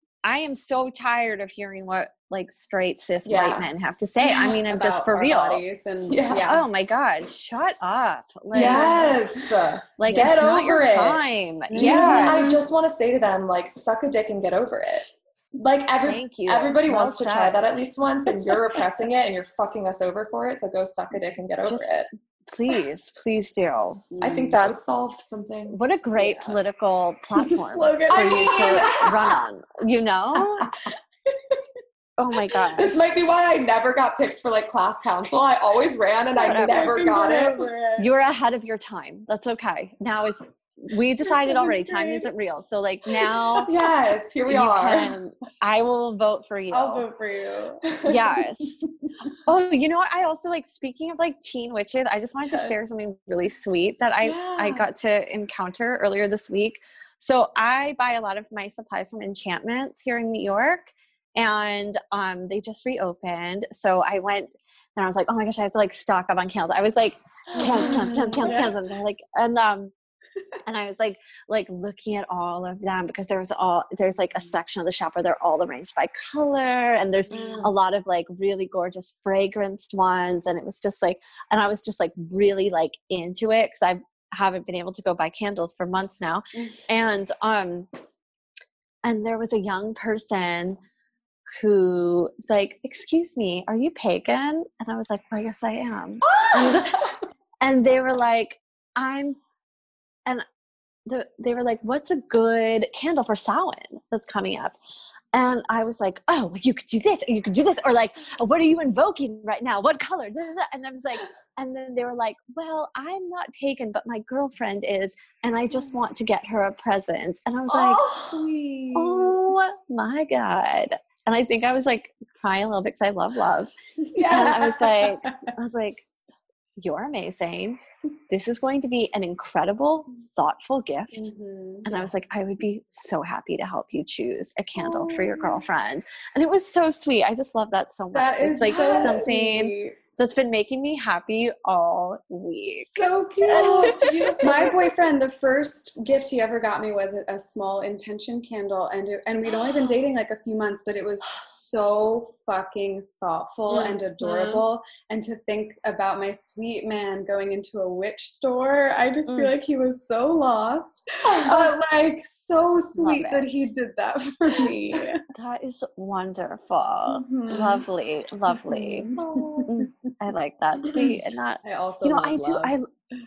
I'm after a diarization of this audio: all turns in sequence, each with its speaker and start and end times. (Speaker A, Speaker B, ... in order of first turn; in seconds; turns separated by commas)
Speaker A: 0.2-5.6, Speaker B: 3.2-3.7, Speaker C: 4.2-6.6, Speaker B: 6.1-6.5, Speaker A: 6.4-9.2, Speaker C: 8.5-9.5, Speaker B: 8.5-11.2, Speaker A: 10.0-12.5, Speaker C: 11.7-12.6, Speaker B: 11.7-22.1, Speaker A: 16.1-17.6, Speaker A: 22.5-24.1, Speaker C: 24.1-24.8, Speaker B: 24.2-25.8, Speaker A: 25.7-30.7, Speaker C: 26.2-26.6, Speaker C: 27.4-29.2, Speaker B: 28.1-29.2, Speaker A: 32.2-33.0, Speaker B: 32.7-37.7, Speaker C: 36.4-38.1, Speaker A: 36.4-36.9, Speaker A: 38.0-43.7, Speaker C: 41.2-42.3, Speaker B: 43.6-45.1, Speaker A: 44.5-47.0, Speaker C: 46.7-47.9, Speaker A: 48.0-48.8, Speaker A: 49.5-69.9, Speaker B: 54.2-54.9, Speaker B: 67.5-68.7, Speaker C: 67.6-68.7, Speaker A: 70.7-87.9, Speaker C: 77.3-77.7, Speaker B: 77.3-77.7, Speaker C: 86.5-86.8, Speaker A: 89.0-90.8, Speaker A: 91.5-97.1, Speaker B: 96.2-97.0, Speaker A: 97.6-99.4, Speaker A: 101.0-104.8, Speaker A: 105.3-118.1, Speaker B: 117.7-119.3, Speaker A: 118.9-123.7, Speaker B: 124.1-125.1, Speaker A: 124.3-126.0, Speaker C: 124.3-124.7, Speaker A: 126.8-131.3, Speaker C: 131.1-132.1, Speaker A: 131.8-144.7, Speaker C: 134.8-135.5, Speaker C: 138.1-140.0, Speaker B: 138.7-139.3, Speaker C: 142.9-165.2, Speaker B: 143.0-144.8, Speaker B: 153.7-154.6, Speaker A: 159.3-159.6, Speaker B: 161.2-161.8, Speaker A: 162.9-163.7, Speaker A: 165.3-169.1, Speaker B: 167.1-167.8, Speaker C: 168.5-169.7, Speaker B: 169.2-169.7, Speaker A: 169.6-172.8, Speaker C: 171.6-172.8